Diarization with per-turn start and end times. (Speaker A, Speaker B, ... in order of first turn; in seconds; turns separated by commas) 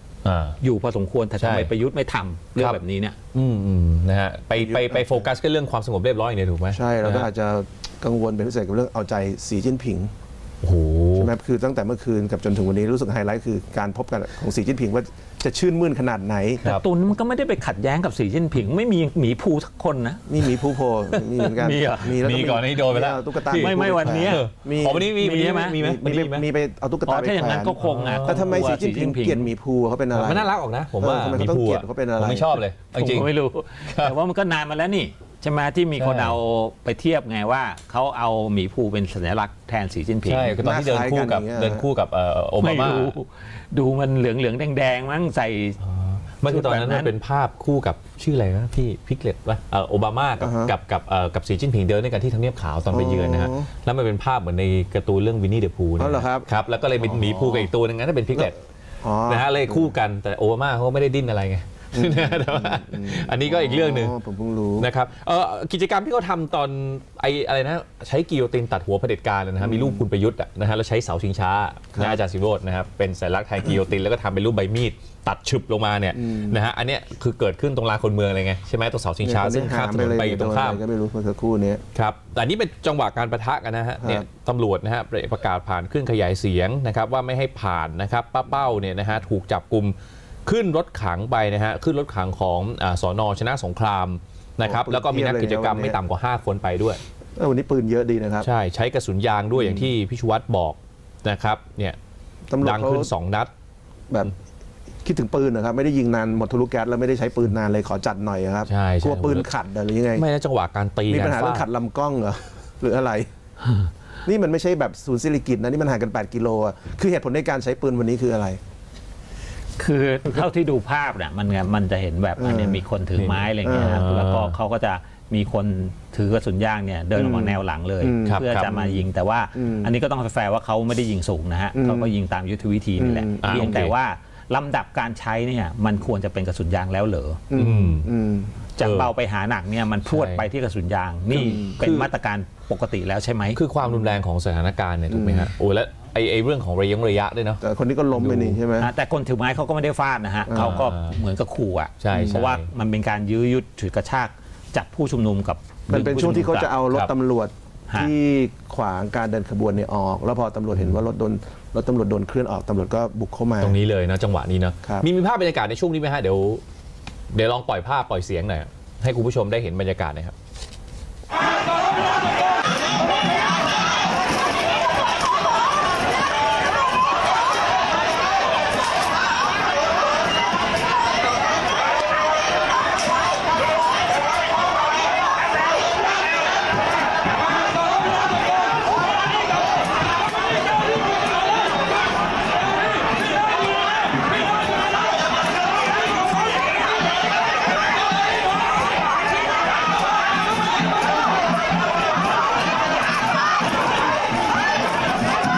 Speaker A: 0.2-0.6, Speaker B: 0.6-3.2, Speaker A: 1.4-1.7, Speaker A: 3.3-7.3, Speaker C: 4.6-5.2, Speaker C: 6.7-10.1, Speaker A: 10.6-11.3, Speaker C: 11.2-16.6, Speaker B: 16.6-20.4, Speaker C: 20.3-25.2, Speaker B: 21.4-22.2, Speaker A: 22.2-26.5, Speaker B: 23.6-24.4, Speaker B: 25.2-25.8, Speaker C: 25.7-32.6, Speaker B: 27.1-29.5, Speaker A: 27.8-28.7, Speaker A: 30.1-33.3, Speaker B: 33.0-40.5, Speaker A: 33.9-34.1, Speaker A: 36.0-36.4, Speaker A: 40.2-43.2, Speaker C: 40.6-41.9, Speaker B: 42.6-45.8, Speaker A: 45.8-58.5, Speaker B: 46.5-47.1, Speaker C: 50.4-50.7, Speaker C: 52.9-53.7, Speaker C: 56.0-56.5, Speaker C: 57.0-57.7, Speaker C: 59.0-59.9, Speaker A: 59.3-64.1, Speaker C: 61.9-64.9, Speaker A: 64.8-80.8, Speaker C: 69.6-70.0, Speaker C: 76.1-76.6, Speaker C: 79.2-81.8, Speaker A: 82.0-90.0, Speaker C: 84.0-84.2, Speaker A: 90.5-97.0, Speaker C: 94.6-96.0, Speaker C: 97.4-98.5, Speaker A: 98.4-102.0, Speaker C: 99.5-99.9, Speaker C: 102.5-103.1, Speaker A: 102.6-103.5, Speaker C: 105.0-110.2, Speaker A: 108.7-109.5, Speaker A: 110.1-111.7, Speaker C: 111.1-113.3, Speaker C: 114.2-118.6, Speaker B: 119.8-137.4, Speaker C: 122.4-122.8, Speaker A: 123.2-124.5, Speaker C: 123.6-124.0, Speaker C: 127.2-129.9, Speaker A: 128.3-128.7, Speaker C: 131.7-132.1, Speaker C: 133.0-133.7, Speaker A: 133.4-133.9, Speaker C: 137.5-138.6, Speaker A: 137.6-138.1, Speaker B: 138.8-143.6, Speaker A: 138.8-139.1, Speaker A: 140.1-140.5, Speaker C: 141.3-142.1, Speaker A: 143.6-147.6, Speaker C: 143.9-144.2, Speaker C: 145.1-145.5, Speaker C: 147.6-148.9, Speaker A: 148.1-148.6, Speaker B: 148.8-156.7, Speaker C: 150.5-150.8, Speaker A: 150.6-151.2, Speaker A: 152.0-152.7, Speaker C: 155.9-163.8, Speaker A: 163.6-166.6, Speaker A: 167.3-170.3